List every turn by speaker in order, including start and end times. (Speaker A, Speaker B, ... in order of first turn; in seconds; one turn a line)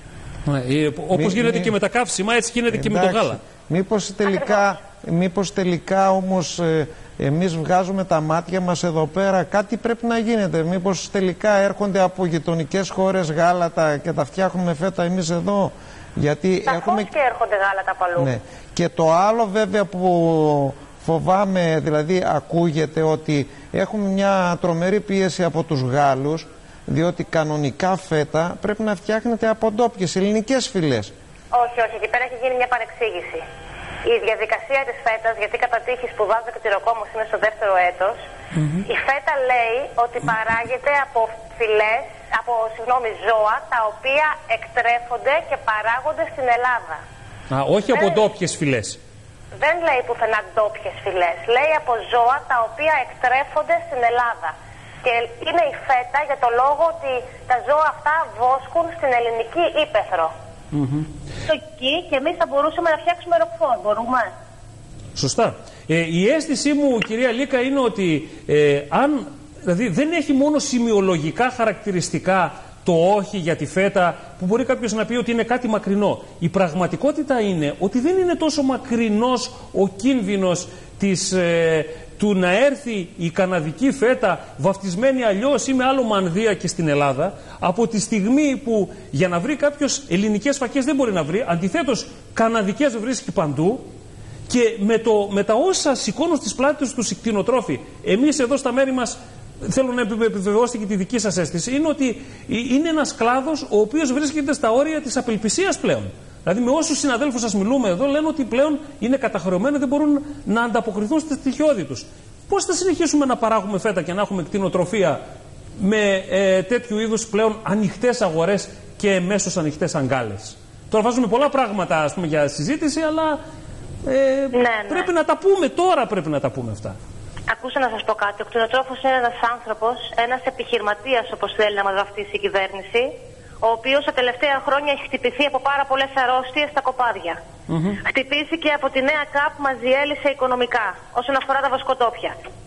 Speaker A: 0.5-3.4
Speaker B: 1.1-1.7
Speaker B: 2.7-17.1
Speaker C: 4.2-4.7
Speaker C: 16.6-18.3
Speaker B: 18.2-31.1
Speaker C: 31.5-33.4
Speaker C: 34.0-38.2
Speaker A: 38.5-38.8
Speaker C: 38.8-47.0
Speaker A: 47.5-49.0
Speaker C: 47.9-48.3
Speaker C: 49.6-60.3
Speaker A: 60.7-61.1
Speaker C: 61.5-64.3
Speaker A: 65.2-93.8
Speaker A: 94.5-115.2
Speaker A: 115.8-123.4
Speaker A: 124.0-127.0
Speaker C: 124.5-125.1
Speaker C: 127.5-137.4
Speaker A: 137.7-138.0
Speaker C: 138.0-142.3